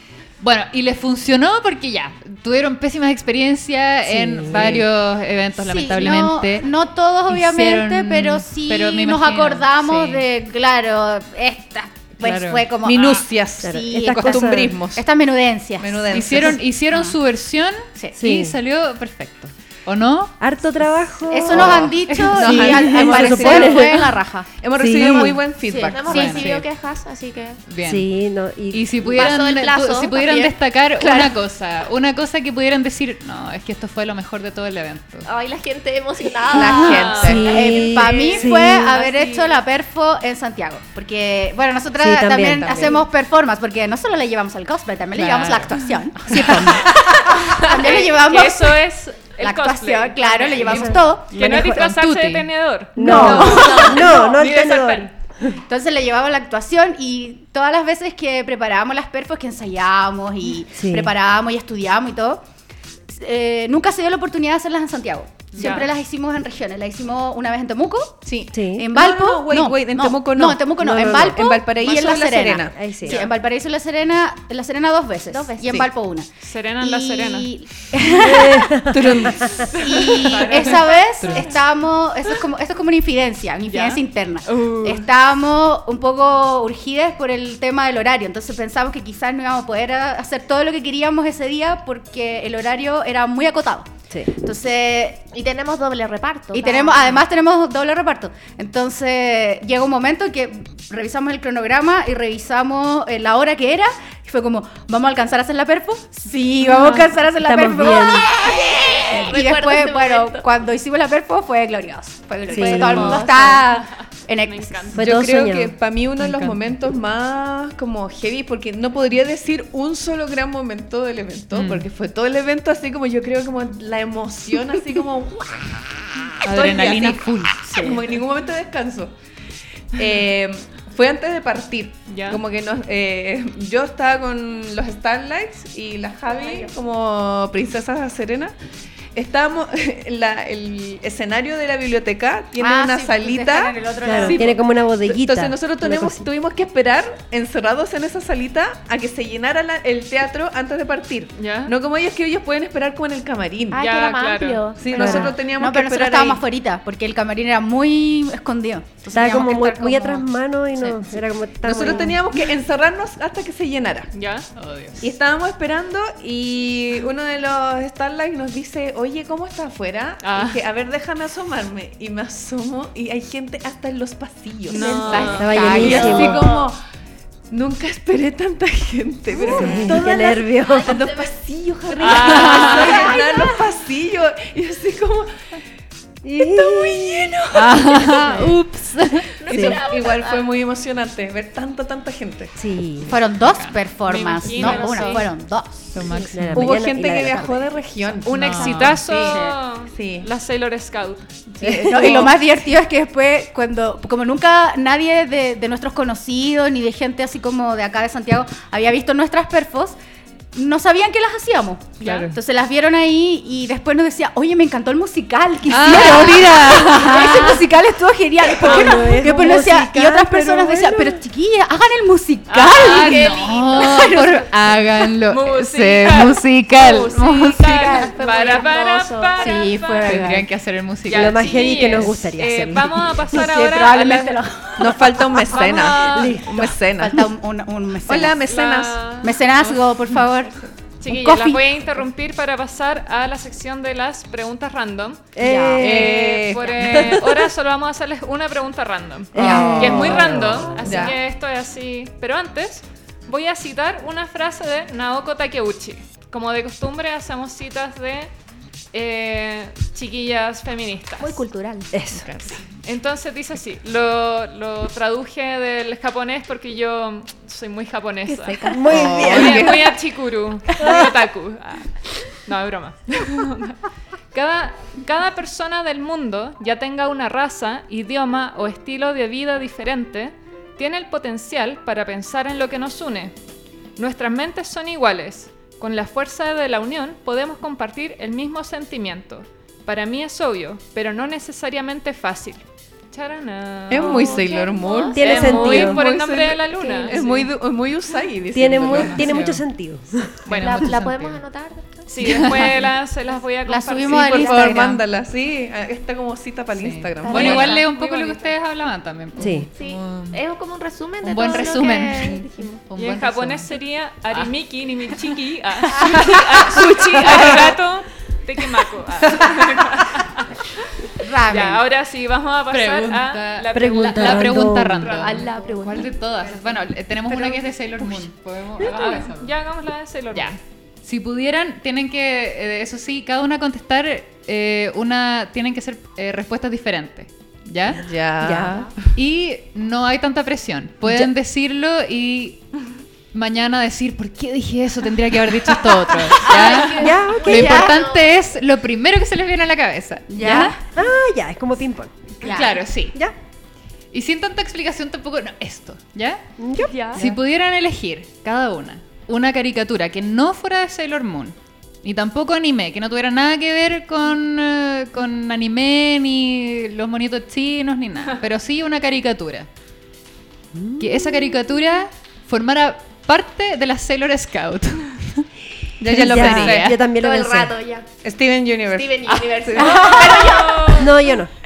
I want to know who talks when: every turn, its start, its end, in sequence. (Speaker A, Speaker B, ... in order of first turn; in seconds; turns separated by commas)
Speaker A: 0.4-6.7, Speaker B: 4.0-4.8, Speaker C: 5.6-17.1, Speaker A: 7.3-10.2, Speaker A: 12.2-12.7, Speaker D: 12.8-15.0, Speaker B: 13.6-14.8, Speaker D: 15.8-16.6, Speaker A: 16.1-20.4, Speaker B: 18.1-18.6, Speaker B: 20.4-21.9, Speaker C: 21.3-24.5, Speaker D: 21.5-24.0, Speaker A: 22.1-22.7, Speaker B: 22.5-24.1, Speaker D: 24.6-26.2, Speaker B: 24.8-25.4, Speaker C: 25.6-26.5, Speaker E: 25.9-27.6, Speaker A: 26.0-26.7, Speaker A: 27.7-28.1, Speaker B: 27.8-29.4, Speaker A: 28.7-35.3, Speaker E: 29.1-30.5, Speaker C: 31.0-31.3, Speaker E: 35.2-38.5, Speaker D: 36.5-37.6, Speaker F: 36.8-37.5, Speaker B: 37.2-39.0, Speaker C: 37.4-48.8, Speaker F: 38.9-39.5, Speaker B: 42.0-42.9, Speaker D: 42.6-43.0, Speaker A: 45.1-46.9, Speaker B: 46.3-46.8, Speaker F: 47.3-55.1, Speaker C: 49.4-51.4, Speaker B: 50.6-51.9, Speaker A: 51.4-52.5, Speaker B: 53.0-55.5, Speaker C: 53.0-54.1, Speaker A: 53.1-53.4, Speaker E: 53.5-54.2, Speaker C: 55.6-62.4, Speaker B: 60.7-61.1, Speaker C: 63.1-68.2, Speaker F: 65.6-65.9, Speaker D: 68.2-73.2, Speaker B: 68.5-68.9, Speaker C: 68.7-76.3, Speaker B: 70.8-71.4, Speaker B: 72.7-73.2, Speaker E: 75.3-75.9, Speaker F: 76.4-77.5, Speaker C: 76.8-78.9, Speaker B: 78.2-79.6, Speaker D: 78.9-79.8, Speaker F: 79.7-81.4, Speaker C: 79.7-95.3, Speaker A: 81.2-81.5, Speaker F: 83.7-85.0, Speaker E: 95.3-97.2, Speaker C: 96.5-115.0, Speaker B: 107.4-108.3, Speaker E: 108.3-110.5, Speaker B: 112.5-113.2, Speaker E: 112.5-113.7, Speaker F: 114.4-115.1, Speaker B: 114.9-115.7, Speaker D: 115.0-129.1, Speaker A: 116.2-116.7, Speaker A: 121.5-121.9, Speaker A: 126.4-127.7, Speaker C: 127.7-127.9, Speaker D: 129.9-138.5, Speaker F: 132.1-132.4, Speaker D: 139.1-153.9, Speaker C: 142.6-144.6, Speaker B: 144.0-146.3, Speaker F: 151.4-151.7, Speaker E: 153.7-155.3, Speaker F: 153.8-154.7, Speaker D: 154.8-156.4, Speaker B: 154.9-155.3, Speaker C: 155.5-160.2, Speaker B: 159.1-162.2, Speaker D: 161.6-164.1, Speaker F: 164.1-164.5, Speaker A: 164.6-165.1, Speaker D: 165.0-176.8, Speaker F: 170.2-170.6, Speaker F: 174.7-176.3, Speaker E: 174.7-176.6, Speaker C: 174.9-176.4, Speaker B: 175.4-176.5, Speaker D: 177.5-185.3, Speaker E: 179.4-181.3, Speaker B: 179.4-181.0, Speaker E: 181.9-183.7, Speaker F: 182.0-183.2, Speaker B: 186.2-188.4, Speaker D: 186.4-188.3, Speaker A: 187.5-189.3, Speaker E: 189.3-190.5, Speaker D: 189.4-192.5, Speaker B: 189.5-189.8, Speaker B: 192.6-193.1, Speaker C: 193.1-196.1, Speaker A: 193.3-193.8, Speaker F: 194.1-195.3, Speaker A: 194.4-195.1, Speaker A: 195.9-196.8, Speaker B: 196.2-197.7, Speaker D: 196.5-200.3, Speaker A: 198.3-199.1, Speaker F: 198.3-201.3, Speaker C: 199.2-199.6, Speaker D: 201.5-202.4, Speaker B: 201.6-202.1, Speaker C: 201.7-210.0, Speaker C: 210.5-224.3, Speaker A: 212.0-212.3, Speaker D: 215.7-216.6, Speaker A: 215.8-217.6, Speaker B: 218.6-221.2, Speaker F: 218.7-219.1, Speaker F: 222.5-223.4, Speaker A: 222.7-227.6, Speaker E: 223.0-224.2, Speaker F: 225.3-230.2, Speaker C: 227.1-228.1, Speaker E: 227.6-229.6, Speaker C: 229.4-230.5, Speaker A: 230.0-232.1, Speaker F: 231.1-234.4, Speaker B: 231.1-233.3, Speaker C: 233.3-235.6, Speaker D: 234.8-237.3, Speaker F: 235.4-236.4, Speaker B: 236.0-236.7, Speaker C: 237.0-238.4, Speaker D: 238.0-239.1, Speaker F: 238.5-239.6, Speaker C: 239.2-241.9, Speaker F: 241.0-245.2, Speaker B: 245.3-246.2, Speaker C: 245.4-245.9, Speaker D: 245.8-247.2, Speaker F: 245.8-258.3, Speaker B: 246.9-247.2, Speaker B: 249.3-250.9, Speaker D: 249.3-251.2, Speaker F: 258.9-261.4, Speaker E: 261.2-261.9, Speaker B: 261.9-262.3, Speaker D: 262.1-262.6, Speaker F: 262.8-273.8, Speaker E: 268.3-269.4, Speaker B: 268.7-269.9, Speaker D: 268.9-269.9, Speaker B: 270.8-271.1, Speaker F: 274.3-283.3, Speaker F: 284.0-294.4, Speaker D: 293.9-299.3, Speaker E: 293.9-296.0, Speaker B: 295.1-296.0, Speaker F: 295.2-297.5, Speaker E: 296.8-297.2, Speaker B: 298.5-300.4, Speaker A: 298.8-299.6, Speaker F: 300.4-300.9, Speaker A: 300.4-301.4, Speaker E: 300.5-302.4, Speaker F: 302.1-304.5, Speaker A: 302.2-302.9, Speaker C: 303.6-305.0, Speaker D: 304.1-307.8, Speaker A: 306.8-310.4, Speaker E: 307.2-307.9, Speaker F: 307.3-308.5, Speaker B: 309.4-309.7, Speaker E: 309.7-312.8, Speaker A: 311.2-313.7, Speaker F: 313.0-320.8, Speaker C: 321.2-321.8, Speaker F: 321.5-325.5, Speaker A: 322.7-329.5, Speaker B: 323.7-325.2, Speaker E: 325.1-326.2, Speaker B: 327.3-328.2, Speaker F: 328.8-330.6, Speaker A: 330.3-338.1, Speaker D: 338.0-338.9, Speaker B: 338.4-338.9, Speaker A: 339.1-342.6, Speaker B: 341.0-341.3, Speaker A: 343.3-350.8, Speaker E: 346.4-348.4, Speaker B: 346.9-347.8, Speaker C: 347.4-348.0, Speaker C: 350.3-350.8, Speaker B: 350.4-352.3, Speaker C: 352.4-352.8, Speaker A: 352.4-353.2, Speaker A: 354.1-356.4, Speaker B: 356.6-357.4, Speaker E: 356.9-357.2, Speaker A: 357.1-369.7, Speaker B: 370.7-371.6, Speaker A: 371.0-375.4, Speaker D: 376.0-376.9, Speaker A: 376.1-377.0, Speaker B: 376.1-377.7, Speaker E: 377.0-378.1, Speaker D: 378.2-380.3, Speaker E: 378.9-381.2, Speaker C: 379.7-380.8, Speaker F: 380.3-381.2, Speaker B: 380.9-381.5